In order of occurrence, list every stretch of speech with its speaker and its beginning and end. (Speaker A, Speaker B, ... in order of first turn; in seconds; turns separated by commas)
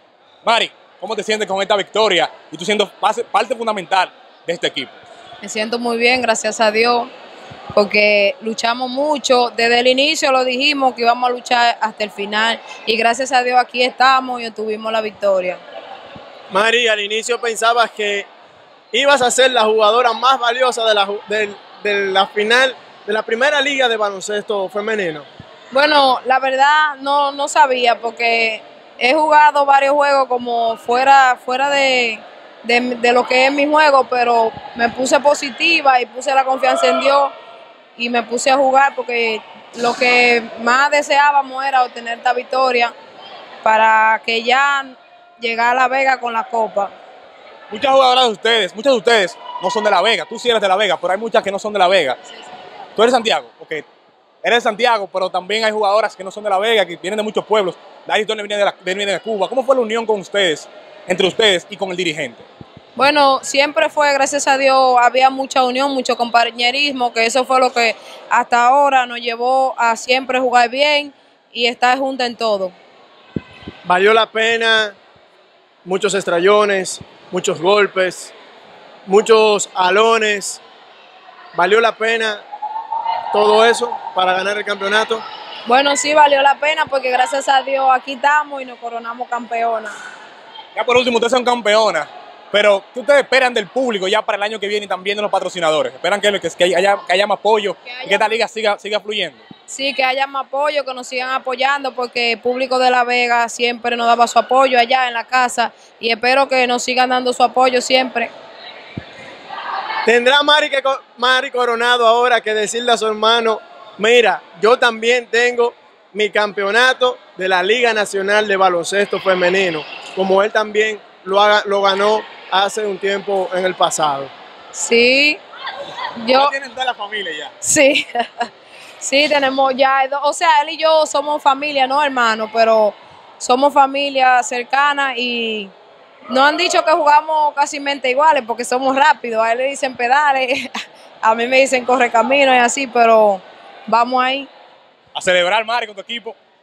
Speaker A: 0.4-5.0, Speaker B: 5.4-7.1, Speaker B: 7.7-15.6, Speaker C: 16.5-18.3, Speaker C: 18.9-25.3, Speaker B: 25.7-37.3, Speaker B: 38.0-42.9, Speaker B: 43.6-46.9, Speaker A: 47.7-52.2, Speaker A: 53.0-53.8, Speaker A: 54.4-62.5, Speaker B: 63.0-72.8, Speaker C: 73.8-75.0, Speaker C: 75.8-78.3, Speaker C: 79.0-80.6, Speaker C: 81.5-82.4, Speaker C: 83.3-85.2, Speaker B: 85.7-90.0, Speaker A: 90.7-99.5, Speaker B: 97.8-98.4, Speaker B: 99.7-108.3, Speaker C: 110.0-124.3, Speaker B: 124.7-125.4, Speaker B: 126.2-126.5, Speaker A: 126.3-127.5, Speaker B: 127.6-135.7, Speaker B: 136.3-144.5, Speaker A: 145.1-146.4